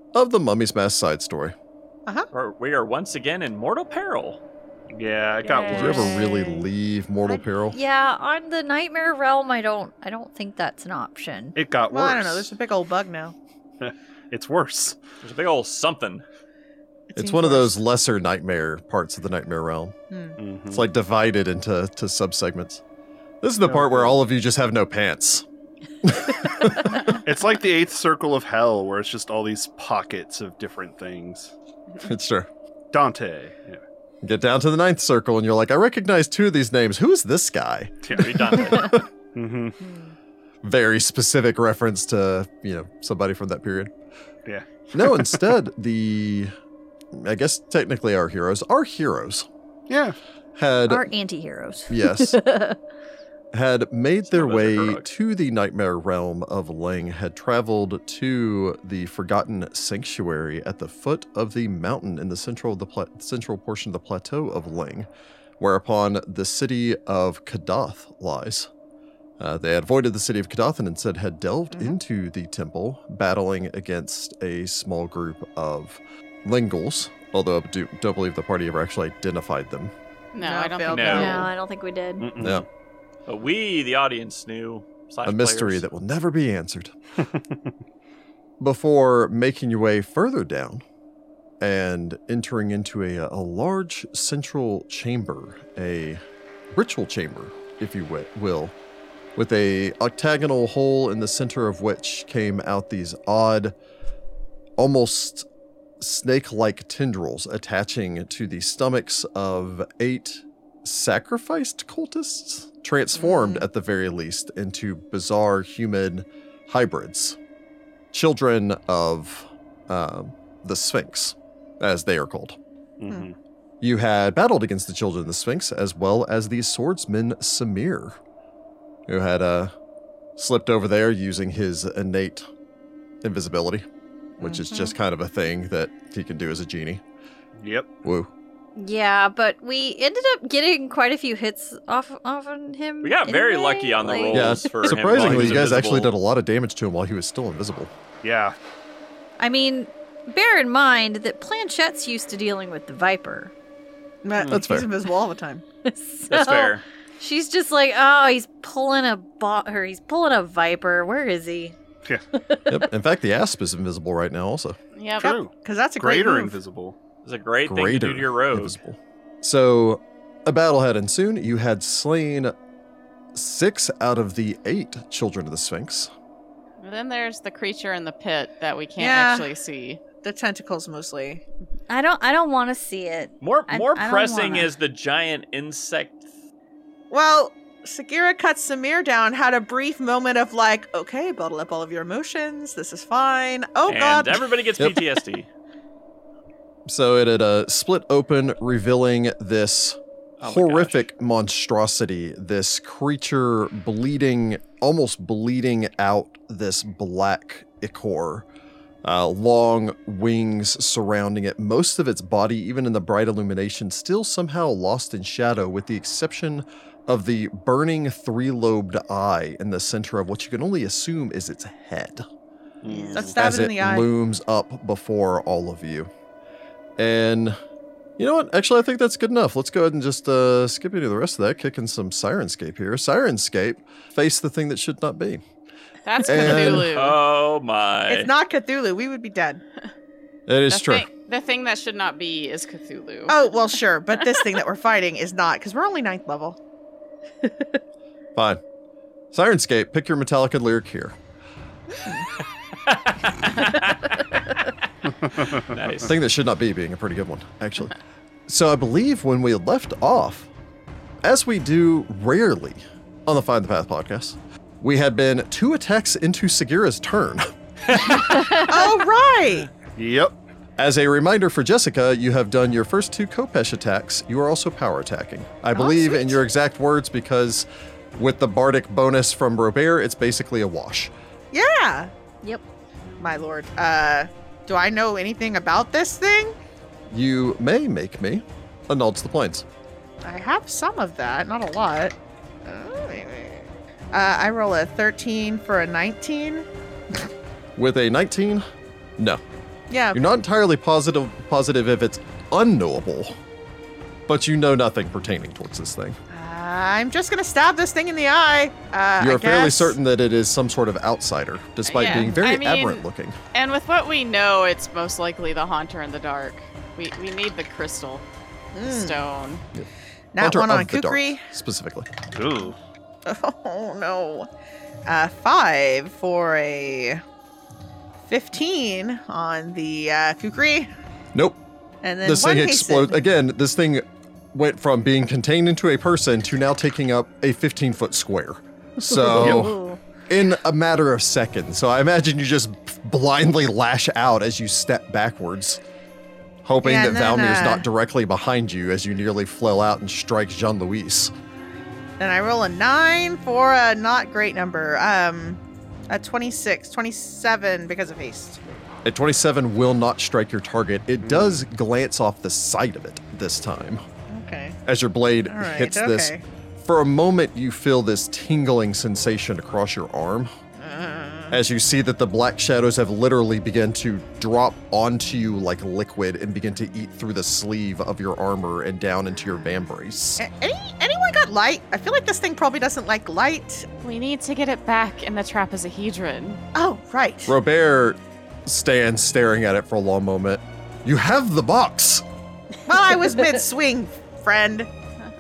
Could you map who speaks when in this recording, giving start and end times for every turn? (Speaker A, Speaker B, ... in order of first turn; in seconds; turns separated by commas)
Speaker A: 0.1-1.5, Speaker B: 2.3-4.4, Speaker C: 4.9-6.3, Speaker D: 5.4-6.7, Speaker A: 5.7-7.8, Speaker D: 7.7-11.6, Speaker C: 11.6-12.5, Speaker E: 11.9-13.3, Speaker C: 13.8-15.0, Speaker B: 15.2-16.2, Speaker E: 17.1-17.8, Speaker A: 17.1-19.9, Speaker E: 20.1-20.4, Speaker C: 20.4-20.8, Speaker A: 20.7-22.8, Speaker A: 23.4-25.5, Speaker C: 23.7-24.1, Speaker A: 26.0-27.1, Speaker C: 27.2-31.5, Speaker A: 32.0-32.5, Speaker C: 32.9-33.8, Speaker A: 34.2-39.0, Speaker C: 38.0-38.6, Speaker B: 38.1-39.0, Speaker C: 39.3-39.8, Speaker A: 40.6-43.9, Speaker C: 44.5-45.4, Speaker A: 44.9-46.5, Speaker A: 47.1-49.5, Speaker C: 49.9-50.2, Speaker A: 50.6-51.1, Speaker D: 50.9-52.8, Speaker A: 51.9-52.4, Speaker A: 53.5-65.1, Speaker B: 54.3-55.1, Speaker A: 65.6-68.7, Speaker A: 69.4-79.9, Speaker F: 80.3-81.5, Speaker E: 80.4-81.5, Speaker B: 80.9-81.5, Speaker D: 81.1-82.3, Speaker C: 82.2-82.7, Speaker A: 82.4-82.7, Speaker B: 83.3-85.9, Speaker A: 85.3-87.0, Speaker A: 88.6-90.8, Speaker A: 91.6-96.2, Speaker A: 96.7-98.8, Speaker A: 99.4-103.8, Speaker A: 104.8-105.5, Speaker A: 106.0-117.4, Speaker A: 118.1-122.6, Speaker C: 123.0-123.3, Speaker A: 123.8-128.2, Speaker A: 129.1-129.7, Speaker A: 130.4-132.5, Speaker A: 133.2-133.9, Speaker A: 134.4-137.0, Speaker E: 134.4-134.9, Speaker C: 137.6-137.9, Speaker A: 138.0-138.3, Speaker D: 138.8-145.0, Speaker B: 143.0-146.1, Speaker A: 144.3-147.9, Speaker C: 145.1-145.7, Speaker C: 148.2-148.6, Speaker D: 149.4-153.5, Speaker E: 154.2-155.6, Speaker A: 154.5-154.9, Speaker D: 155.8-161.8, Speaker B: 156.3-156.8, Speaker D: 162.4-162.8, Speaker A: 162.7-164.8, Speaker F: 164.9-165.3, Speaker E: 165.2-166.6, Speaker C: 165.2-167.0, Speaker B: 167.2-168.8, Speaker A: 167.7-172.5, Speaker A: 173.3-176.1, Speaker F: 176.8-180.0, Speaker E: 179.0-179.5, Speaker E: 180.2-181.4, Speaker D: 181.9-184.7, Speaker B: 183.4-186.2, Speaker E: 187.1-194.4, Speaker B: 193.9-195.5, Speaker A: 196.9-208.5, Speaker B: 200.4-201.0, Speaker A: 209.0-222.2, Speaker C: 222.8-223.4, Speaker E: 222.9-224.1, Speaker A: 223.2-226.1, Speaker A: 227.0-227.6, Speaker A: 228.2-235.4, Speaker F: 236.0-237.2, Speaker A: 236.2-236.9, Speaker B: 236.4-238.3, Speaker E: 238.1-239.6, Speaker A: 240.5-241.1, Speaker F: 240.7-243.5, Speaker E: 243.3-246.6, Speaker A: 248.4-248.6, Speaker A: 249.3-251.2, Speaker B: 252.8-254.6, Speaker C: 255.2-255.8, Speaker B: 255.4-256.1, Speaker A: 256.0-260.5, Speaker A: 261.2-268.0, Speaker E: 268.3-269.7, Speaker D: 268.3-268.8, Speaker C: 269.9-270.4, Speaker A: 270.8-281.1, Speaker E: 275.8-276.4, Speaker E: 281.5-282.1, Speaker E: 283.2-286.6, Speaker A: 287.1-289.6, Speaker E: 290.2-296.7, Speaker A: 297.8-298.6, Speaker E: 299.9-300.2, Speaker A: 300.1-303.4, Speaker A: 304.3-306.2, Speaker E: 306.3-310.0, Speaker A: 309.2-313.4, Speaker F: 311.8-318.2, Speaker E: 312.0-312.4, Speaker E: 318.8-319.2, Speaker F: 318.8-319.6, Speaker A: 319.7-322.1, Speaker E: 320.4-321.4, Speaker C: 322.3-322.8, Speaker E: 323.3-324.5, Speaker E: 325.1-327.2, Speaker E: 328.3-330.9, Speaker E: 332.0-333.2, Speaker A: 332.2-339.8, Speaker D: 339.1-339.9, Speaker E: 339.3-339.9, Speaker A: 340.3-345.8, Speaker A: 346.6-351.3, Speaker E: 346.8-347.9, Speaker E: 352.2-358.6, Speaker A: 359.1-364.0, Speaker C: 361.2-361.6, Speaker E: 364.3-364.8, Speaker A: 364.9-370.5, Speaker E: 365.5-366.4, Speaker E: 370.8-371.6, Speaker A: 371.5-380.4, Speaker E: 380.4-383.9, Speaker F: 384.0-386.6, Speaker E: 386.8-387.6, Speaker A: 387.5-392.2, Speaker E: 392.9-394.9